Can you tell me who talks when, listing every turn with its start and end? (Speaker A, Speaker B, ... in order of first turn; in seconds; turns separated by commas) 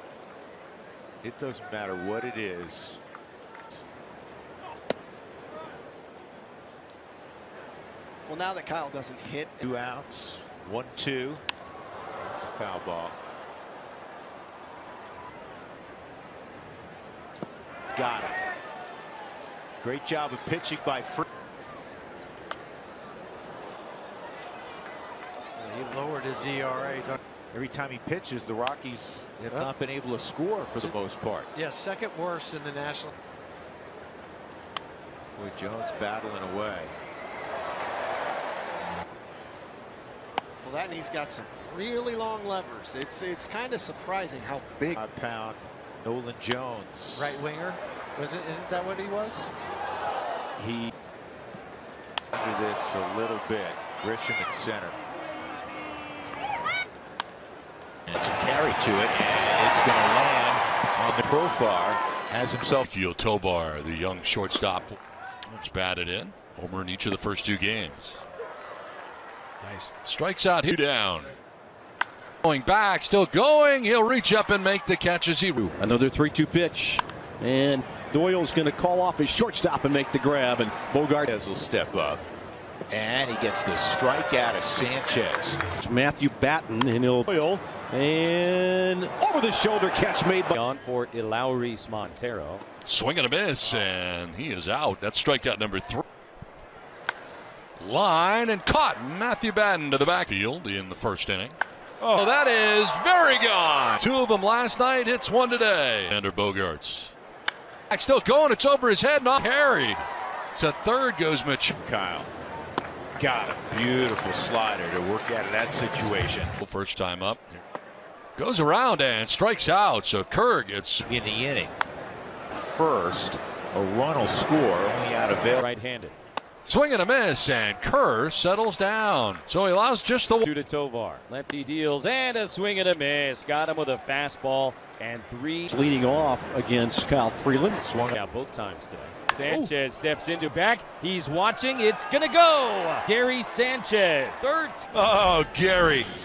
Speaker A: 1.2-3.0, Speaker B: 8.3-9.7, Speaker A: 9.6-11.4, Speaker A: 12.2-13.2, Speaker A: 17.9-18.4, Speaker A: 19.8-21.3, Speaker C: 25.6-27.2, Speaker A: 27.5-31.5, Speaker C: 31.6-33.1, Speaker A: 35.4-37.0, Speaker B: 40.6-45.0, Speaker A: 44.9-47.4, Speaker C: 47.2-49.5, Speaker A: 50.6-50.9, Speaker A: 52.3-55.0, Speaker A: 58.1-62.9, Speaker D: 62.8-68.2, Speaker D: 70.0-71.3, Speaker D: 72.4-75.7, Speaker E: 75.6-81.3, Speaker A: 81.3-82.2, Speaker A: 82.9-85.6, Speaker E: 85.8-90.5, Speaker F: 90.5-92.6, Speaker D: 92.9-96.0, Speaker D: 97.8-107.1, Speaker D: 107.9-111.8, Speaker A: 111.8-112.3, Speaker A: 113.2-116.5, Speaker D: 116.6-117.6, Speaker D: 118.4-121.1, Speaker A: 121.1-121.8, Speaker A: 122.5-125.6, Speaker F: 125.6-126.2, Speaker D: 126.7-130.5, Speaker F: 130.4-135.7, Speaker E: 135.7-137.8, Speaker A: 137.8-138.2, Speaker F: 138.1-144.9, Speaker D: 145.0-146.1